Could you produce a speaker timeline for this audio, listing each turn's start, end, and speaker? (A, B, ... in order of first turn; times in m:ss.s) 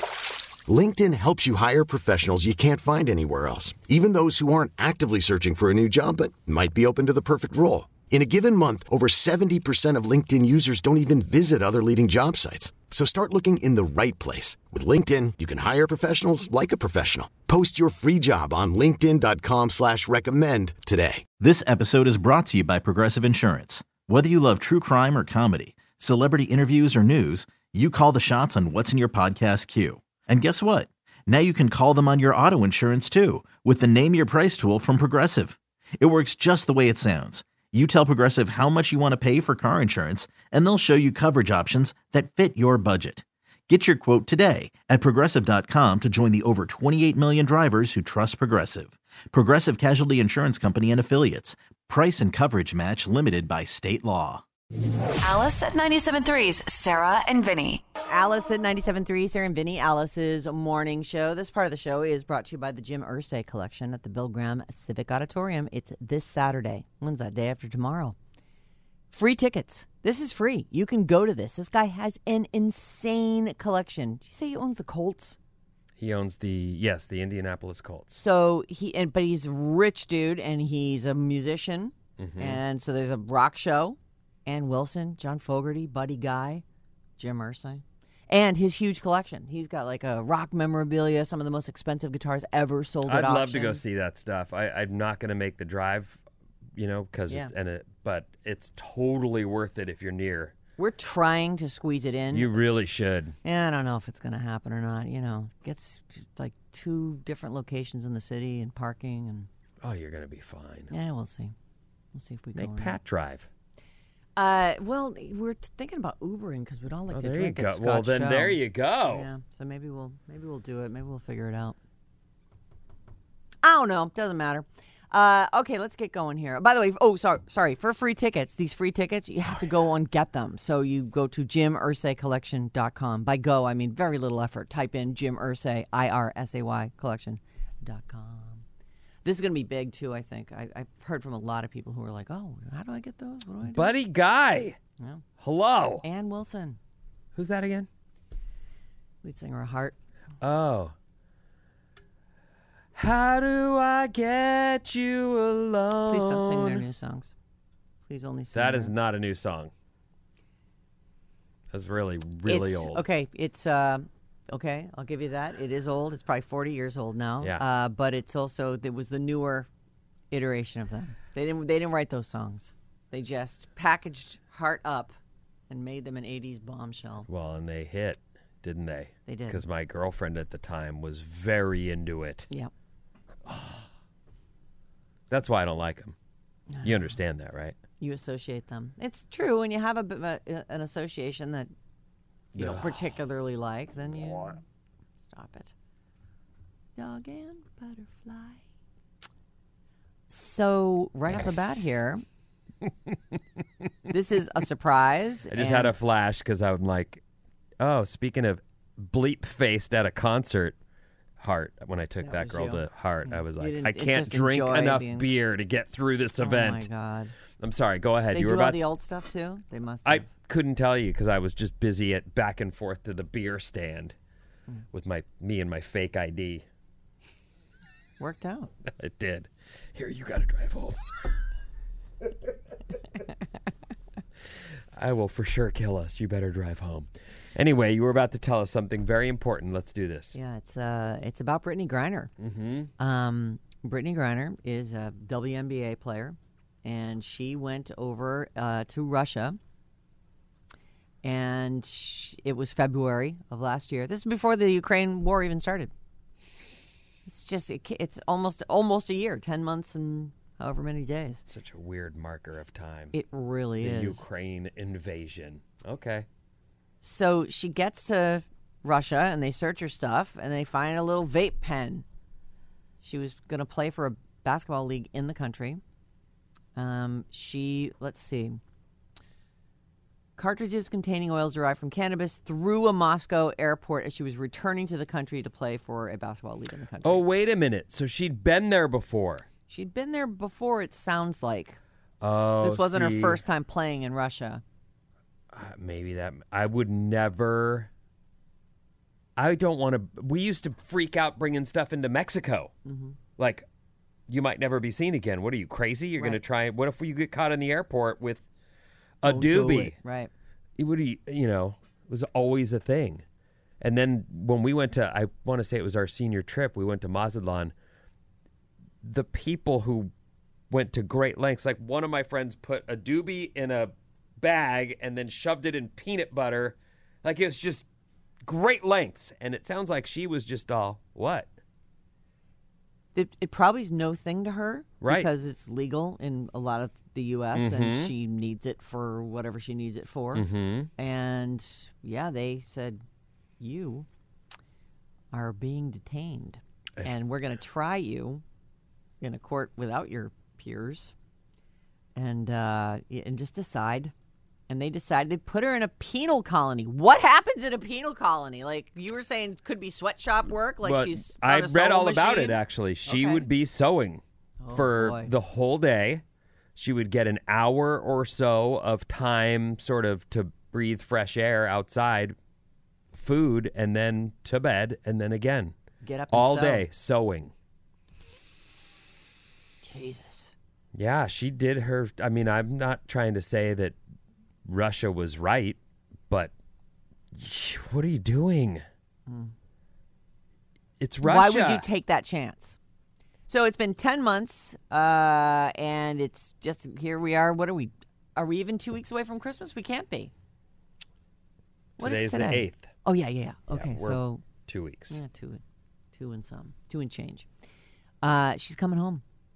0:00.7-0:21.2 A
0:21.4-0:54.4 B
0:55.2-0:57.8 C
0:58.1-1:08.2 D
1:09.1-1:15.4 D
1:16.0-1:18.2 E
1:18.2-1:26.6 D
1:22.2-1:22.6 E
1:27.2-1:33.8 D
1:33.0-1:36.2 E
1:36.8-1:40.5 E
1:40.8-1:42.5 D
1:42.3-1:43.3 E
1:43.4-1:49.5 D
1:49.8-1:50.9 E
1:50.9-1:51.5 D
1:52.1-1:53.0 D
1:52.5-1:53.5 E
1:54.4-2:01.8 D
1:57.1-1:59.3 E
2:03.6-2:18.6 D
2:19.2-2:23.9 D
2:23.6-2:24.8 E
2:25.4-2:26.0 E
2:26.0-2:26.8 D
2:27.3-2:27.9 E
2:29.2-2:30.0 D
2:30.4-2:30.9 E
2:32.9-2:36.8 E
2:36.0-2:37.3 D
2:38.1-2:38.9 D
2:38.5-2:39.7 E
2:41.7-2:43.0 E
2:42.5-2:49.7 D
2:50.3-2:55.2 D
2:55.7-2:57.2 D
2:57.3-3:02.5 E
2:59.3-2:59.6 D
3:03.5-3:03.8 E
3:05.3-3:06.1 E
3:06.8-3:07.7 E
3:08.0-3:11.7 D
3:12.5-3:13.1 E
3:12.6-3:14.6 D
3:14.2-3:14.5 E
3:15.3-3:15.7 D
3:17.0-3:18.6 D
3:20.3-3:22.2 D
3:24.1-3:25.9 D
3:25.5-3:27.2 E
3:27.8-3:30.8 E
3:31.4-3:36.8 E
3:32.2-3:35.2 D
3:36.4-3:37.3 D
3:37.6-3:38.8 E
3:38.3-3:40.3 D
3:40.0-3:44.1 E
3:44.9-3:46.6 E
3:48.2-3:48.7 D
3:49.0-3:51.0 E
3:55.0-4:00.4 E
4:00.4-4:02.3 D
4:02.4-4:02.9 E
4:03.0-4:09.6 D
4:11.2-4:15.9 D
4:17.3-4:21.4 D
4:21.5-4:23.1 E
4:23.1-4:24.2 D
4:23.8-4:26.2 E
4:27.0-4:32.0 D
4:33.0-4:35.8 D
4:36.8-4:38.6 D
4:40.4-4:47.2 D
4:47.0-4:49.4 E
4:49.7-4:51.8 D
4:52.2-4:53.4 E
4:52.6-4:54.6 D
4:55.5-4:57.9 E
4:59.4-5:02.7 E
5:02.8-5:03.2 D
5:03.4-5:03.6 E
5:04.3-5:08.4 E
5:09.2-5:10.0 E
5:09.2-5:10.3 D
5:10.8-5:13.2 E
5:13.8-5:17.7 E
5:19.0-5:20.1 E
5:20.7-5:27.8 E
5:28.4-5:31.5 E
5:33.1-5:43.0 D
5:35.0-5:35.3 E
5:37.5-5:38.1 E
5:40.3-5:40.9 E
5:43.6-5:44.0 D
5:45.3-5:48.4 D
5:49.2-5:51.1 D
5:52.1-5:54.1 D
5:54.7-6:03.4 D
6:00.8-6:04.2 E
6:04.6-6:05.3 D
6:04.7-6:06.2 E
6:06.8-6:12.4 E
6:13.1-6:15.7 E
6:16.0-6:16.8 D
6:16.3-6:17.5 E
6:19.8-6:20.5 D
6:20.9-6:24.0 E
6:24.6-6:25.8 E
6:27.3-6:28.8 E
6:29.3-6:29.5 D
6:31.0-6:31.8 E
6:31.2-6:32.8 D
6:33.5-6:40.3 D
6:42.0-6:42.9 E
6:42.0-6:44.4 D
6:43.7-6:45.2 E
6:45.1-6:45.6 D
6:46.1-6:47.4 D
6:48.2-6:49.2 D